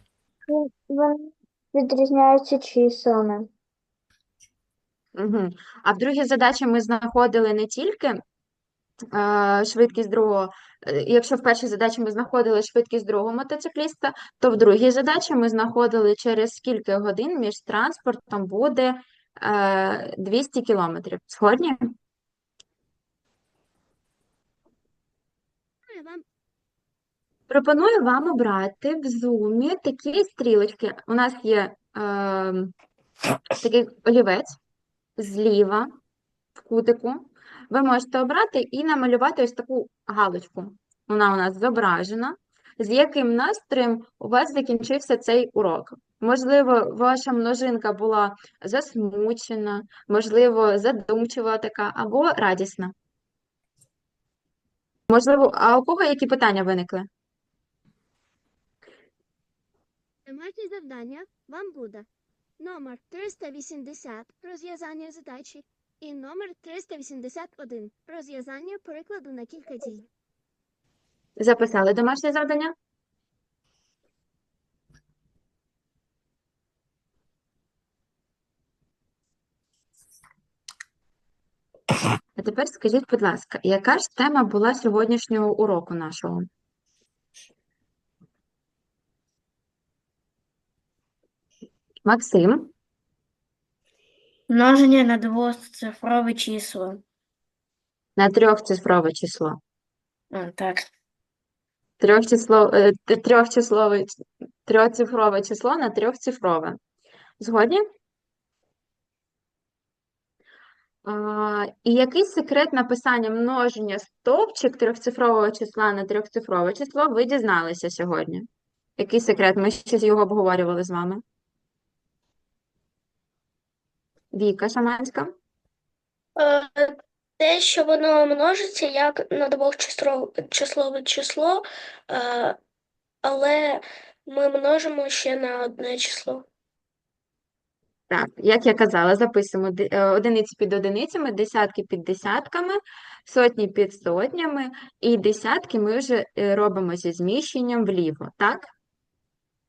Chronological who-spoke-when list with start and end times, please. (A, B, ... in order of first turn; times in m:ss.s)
0:00.5-0:03.5 A
0:05.2-0:08.2 B
0:09.1-0:21.9 B
0:25.9-0:26.2 C
0:27.5-0:32.7 B
0:33.6-0:34.5 B
0:35.2-0:35.9 B
0:36.6-0:52.9 B
0:55.1-0:57.1 B
1:00.2-1:02.1 C
1:02.6-1:10.1 C
1:11.4-1:12.7 B
1:22.4-1:26.5 B
1:32.0-1:32.7 B
1:34.5-1:37.0 D
1:38.2-1:39.6 B
1:40.3-1:40.8 D
1:42.0-1:44.1 B
1:44.6-1:46.8 B
1:47.4-1:47.8 B
1:51.0-1:58.5 B
1:59.0-2:01.2 B
2:04.3-2:05.3 B
2:06.4-2:12.6 E
2:13.2-2:16.4 E
2:18.1-2:28.7 B